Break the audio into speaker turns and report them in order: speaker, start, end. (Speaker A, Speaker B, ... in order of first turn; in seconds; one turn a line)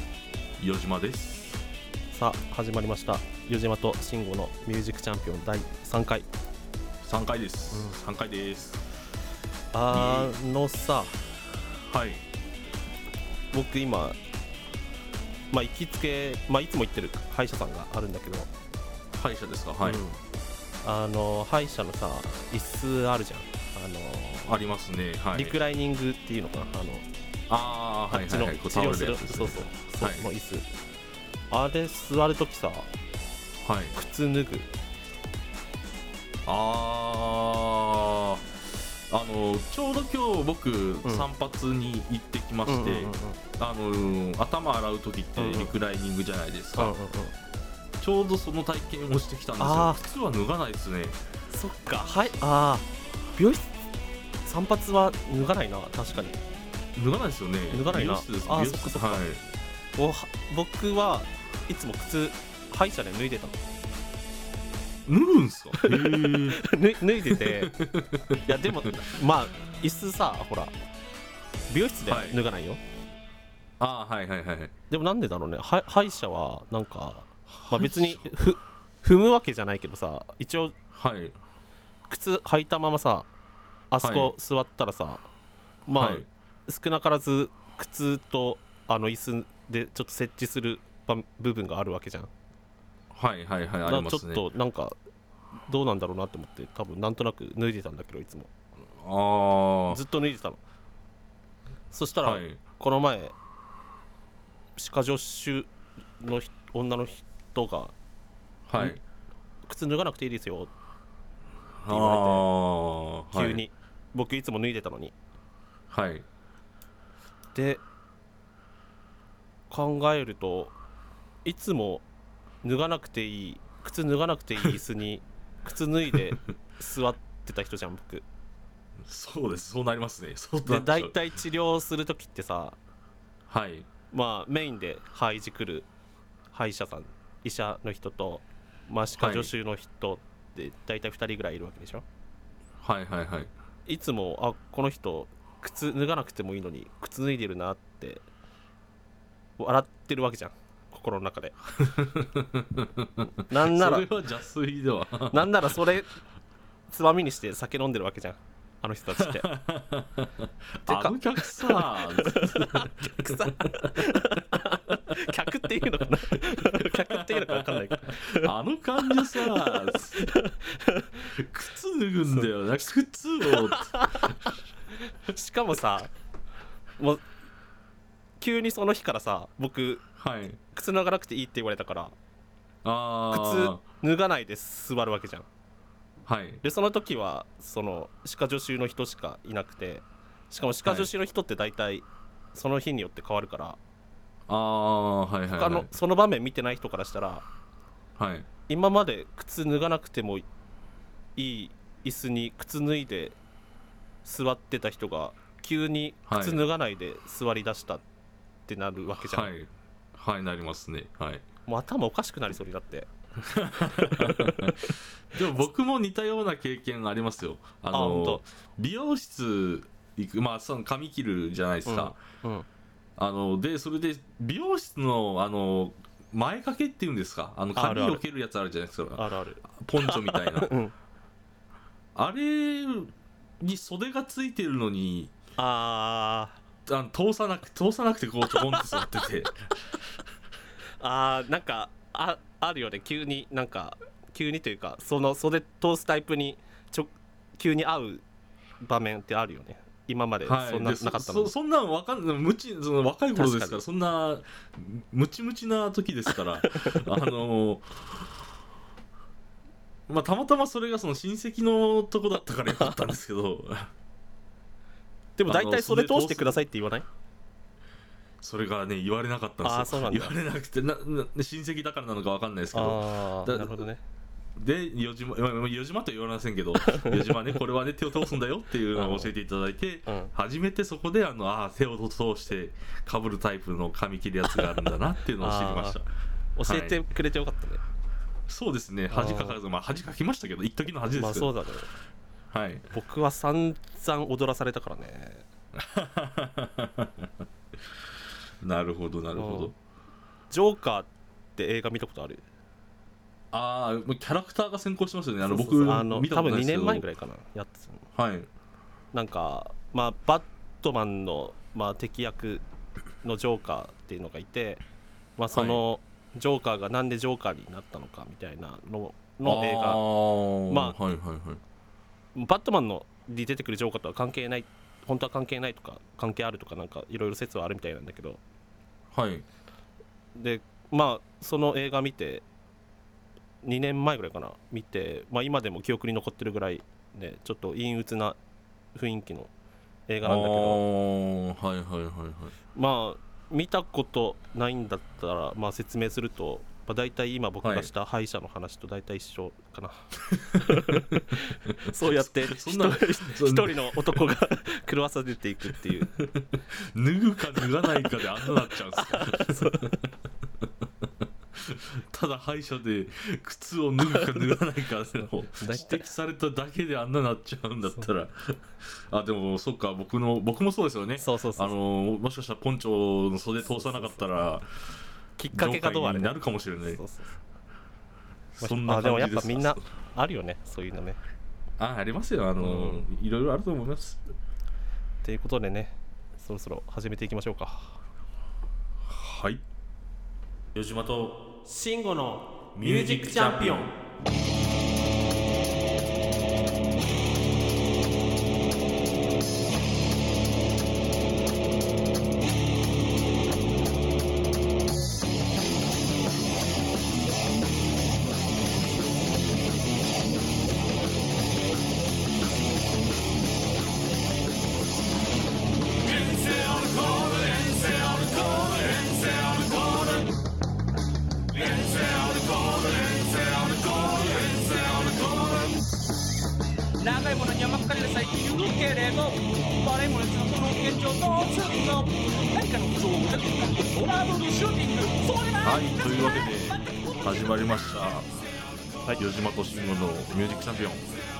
Speaker A: 0.6-1.6
Speaker B: 2.1-6.3
Speaker A: 7.0-8.8
Speaker B: 9.7-11.2
Speaker A: 9.9-10.3
Speaker A: 11.9-12.2
Speaker B: 13.5-14.2
Speaker B: 15.5-18.5
Speaker A: 19.1-20.0
Speaker B: 19.8-20.2
Speaker B: 20.8-24.6
Speaker A: 24.5-25.6
Speaker B: 25.3-27.1
Speaker A: 27.5-30.3
Speaker B: 28.1-30.7
Speaker B: 31.5-32.9
Speaker A: 33.6-33.9
Speaker B: 33.9-34.7
Speaker A: 36.5-38.5
Speaker A: 39.1-46.9
Speaker B: 42.6-43.4
Speaker B: 45.4-45.7
Speaker B: 46.8-47.4
Speaker A: 48.0-51.2
Speaker B: 49.6-50.0
Speaker B: 51.5-53.8
Speaker B: 54.4-56.4
Speaker A: 56.9-59.4
Speaker B: 57.7-59.2
Speaker B: 60.0-63.6
Speaker A: 65.0-66.6
Speaker B: 65.8-67.8
Speaker A: 67.3-69.0
Speaker B: 68.5-70.7
Speaker B: 71.7-72.8
Speaker A: 72.1-72.4
Speaker A: 73.8-74.7
Speaker B: 74.9-80.7
Speaker A: 77.5-78.3
Speaker A: 80.9-81.4
Speaker B: 82.1-83.3
Speaker B: 83.9-85.2
Speaker A: 84.0-84.3
Speaker B: 85.8-92.3
Speaker A: 85.9-86.2
Speaker A: 93.1-94.4
Speaker B: 93.8-95.0
Speaker B: 95.7-98.5
Speaker A: 99.0-100.0
Speaker B: 99.9-100.6
Speaker B: 101.9-103.3
Speaker A: 102.2-102.6
Speaker B: 104.8-107.9
Speaker A: 108.7-109.0
Speaker B: 109.7-110.7
Speaker A: 111.8-113.6
Speaker B: 111.9-112.5
Speaker B: 113.3-115.1
Speaker A: 115.9-116.2
Speaker B: 117.5-117.8
Speaker B: 119.7-120.7
Speaker B: 121.4-122.0
Speaker B: 122.6-128.2
Speaker A: 129.0-131.1
Speaker B: 130.6-132.8
Speaker A: 133.5-133.9
Speaker B: 134.1-135.9
Speaker B: 136.5-142.0
Speaker A: 139.2-139.5
Speaker A: 142.8-143.5
Speaker B: 143.8-148.2
Speaker B: 149.6-151.6
Speaker A: 151.8-155.7
Speaker B: 153.5-154.1
Speaker B: 155.3-156.1
Speaker B: 156.9-159.5
Speaker A: 159.2-164.4
Speaker B: 160.8-168.5
Speaker A: 166.3-170.3
Speaker B: 169.1-171.2
Speaker A: 171.2-174.4
Speaker B: 173.5-174.4
Speaker B: 175.0-176.1
Speaker B: 177.0-177.2
Speaker B: 178.4-180.0
Speaker A: 180.2-180.6
Speaker B: 180.7-182.1
Speaker A: 182.8-183.8
Speaker B: 183.3-185.5
Speaker A: 186.2-186.6
Speaker B: 186.6-193.8
Speaker A: 190.8-191.1
Speaker A: 194.5-195.9
Speaker B: 195.5-197.4
Speaker A: 198.2-198.5
Speaker B: 198.7-200.4
Speaker B: 201.3-203.4
Speaker B: 204.2-208.0
Speaker A: 206.3-206.6
Speaker B: 208.7-209.5
Speaker A: 209.2-211.4
Speaker B: 211.7-214.9
Speaker A: 213.4-222.2
Speaker B: 217.9-218.4
Speaker B: 221.8-222.7
Speaker A: 223.2-230.7
Speaker B: 227.7-228.2
Speaker B: 229.2-230.9
Speaker A: 232.1-235.3
Speaker B: 235.6-236.6
Speaker A: 236.8-239.7
Speaker B: 238.5-239.1
Speaker B: 241.0-248.2
Speaker B: 248.8-251.5
Speaker A: 250.4-258.3
Speaker B: 253.3-253.8
Speaker B: 256.6-257.0
Speaker A: 260.1-263.9
Speaker B: 262.7-262.9
Speaker B: 265.4-267.1
Speaker A: 265.5-266.6
Speaker A: 268.4-273.9
Speaker B: 269.6-270.4
Speaker B: 272.7-274.0
Speaker A: 274.6-286.1
Speaker B: 276.8-277.1
Speaker B: 278.9-279.3
Speaker B: 280.1-280.3
Speaker B: 285.4-286.0
Speaker B: 286.6-287.8
Speaker A: 286.6-287.0
Speaker A: 288.5-291.5
Speaker B: 289.1-289.6
Speaker B: 291.1-291.9
Speaker A: 292.5-292.9
Speaker B: 292.9-295.4
Speaker A: 295.7-297.3
Speaker A: 298.6-299.7
Speaker B: 299.3-299.7
Speaker B: 300.5-302.4
Speaker A: 303.5-307.1
Speaker B: 305.4-308.0
Speaker A: 308.1-308.5
Speaker B: 309.1-312.6
Speaker B: 313.2-314.8
Speaker B: 315.4-320.0
Speaker A: 315.5-315.8
Speaker A: 319.4-321.6
Speaker B: 320.7-320.9
Speaker B: 322.3-328.4
Speaker A: 329.1-329.4
Speaker B: 330.3-332.4
Speaker B: 333.6-338.4
Speaker B: 338.9-339.5
Speaker B: 340.1-340.8
Speaker A: 340.2-342.6
Speaker B: 342.7-356.2
Speaker A: 347.6-347.9
Speaker A: 350.3-354.2
Speaker A: 356.0-359.9
Speaker B: 358.4-360.0
Speaker A: 360.6-374.7
Speaker B: 365.6-366.1
Speaker B: 371.2-371.7
Speaker B: 373.7-374.2
Speaker B: 375.4-377.3
Speaker A: 375.5-377.0
Speaker A: 378.5-379.9
Speaker B: 378.6-381.2
Speaker A: 381.8-384.2
Speaker B: 382.6-383.0
Speaker B: 385.2-388.0
Speaker A: 389.0-389.6
Speaker A: 390.7-391.4
Speaker B: 391.6-393.9
Speaker A: 392.7-393.9
Speaker C: 416.1-420.4
Speaker C: 421.5-425.8
Speaker C: 427.0-435.9
Speaker A: 435.6-438.3
Speaker A: 439.1-441.1